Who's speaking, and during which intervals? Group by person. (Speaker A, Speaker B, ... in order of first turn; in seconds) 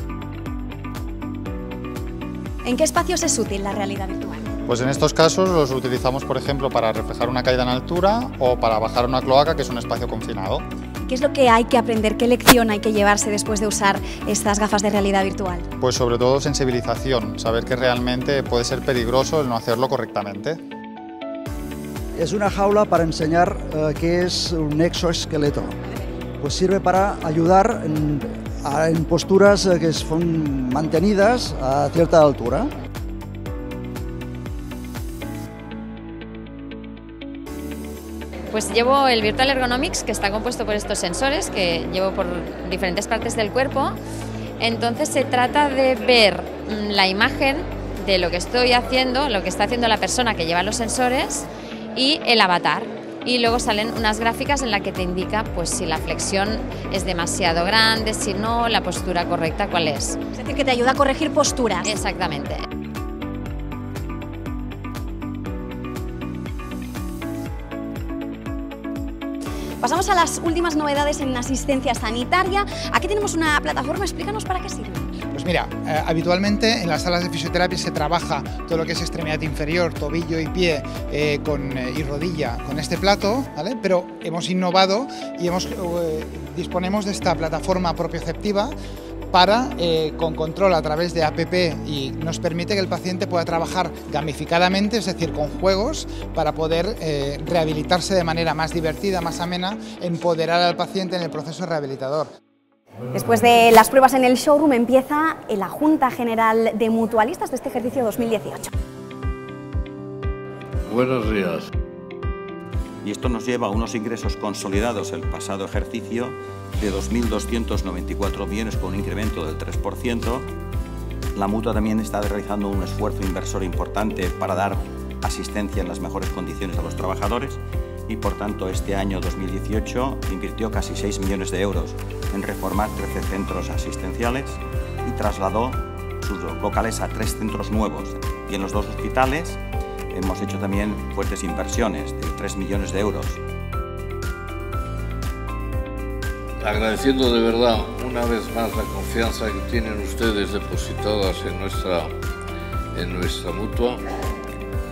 Speaker A: 2.6-4.5, 11.1-15.7, 60.3-61.9, 69.8-75.1, 103.1-108.7
Speaker B: 4.7-10.6, 15.8-20.6
Speaker C: 22.1-25.7, 26.4-32.7
Speaker D: 38.5-44.0, 44.6-60.2, 61.8-62.6
Speaker E: 75.3-88.7, 89.3-102.3
Speaker F: 110.9-111.7, 146.6-152.1, 152.9-154.0
Speaker G: 113.0-120.5, 121.3-139.6, 140.1-143.4